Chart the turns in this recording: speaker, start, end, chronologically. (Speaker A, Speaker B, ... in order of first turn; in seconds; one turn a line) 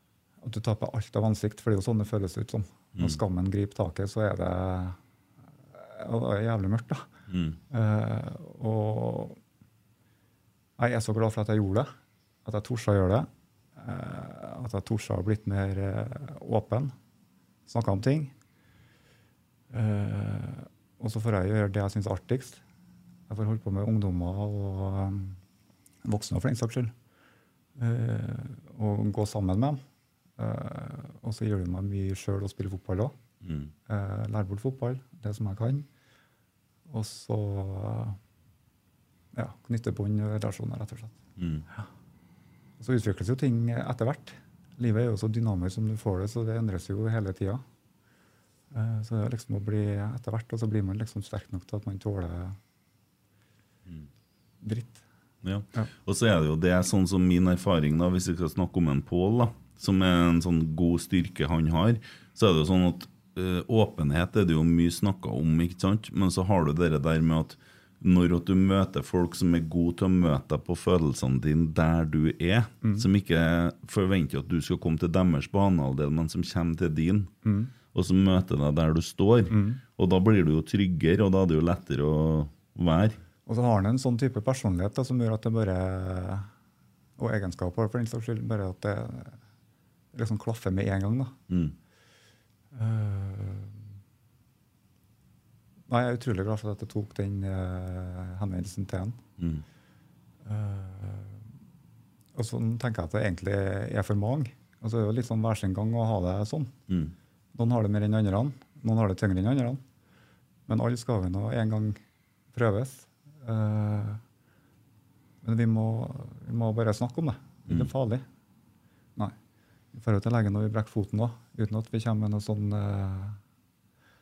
Speaker A: 0.4-5.0
Speaker A: 5.7-7.1
Speaker B: 7.3-7.6
Speaker A: 7.7-9.4
Speaker A: 10.8-11.9
Speaker A: 12.4-16.9
Speaker A: 17.7-18.3
Speaker A: 19.7-22.6
Speaker A: 23.3-25.4
Speaker A: 26.0-26.9
Speaker A: 27.8-29.8
Speaker A: 30.4-33.1
Speaker B: 33.4-33.7
Speaker A: 33.9-35.9
Speaker A: 36.9-38.2
Speaker A: 39.3-41.2
Speaker B: 41.4-41.6
Speaker A: 42.8-47.6
Speaker A: 48.7-52.6
Speaker A: 54.6-55.0
Speaker B: 55.4-77.3
Speaker A: 77.4-77.7
Speaker B: 77.9-83.2
Speaker A: 79.5-79.8
Speaker A: 83.5-86.5
Speaker A: 87.2-89.3
Speaker A: 90.1-91.3
Speaker B: 91.5-91.7
Speaker A: 92.7-93.8
Speaker A: 95.9-99.2
Speaker B: 99.4-99.6
Speaker A: 100.4-101.4
Speaker A: 102.3-106.7
Speaker B: 106.9-107.1
Speaker A: 107.5-109.8
Speaker A: 110.7-112.0
Speaker A: 112.5-114.2
Speaker A: 115.4-118.2
Speaker A: 119.9-123.4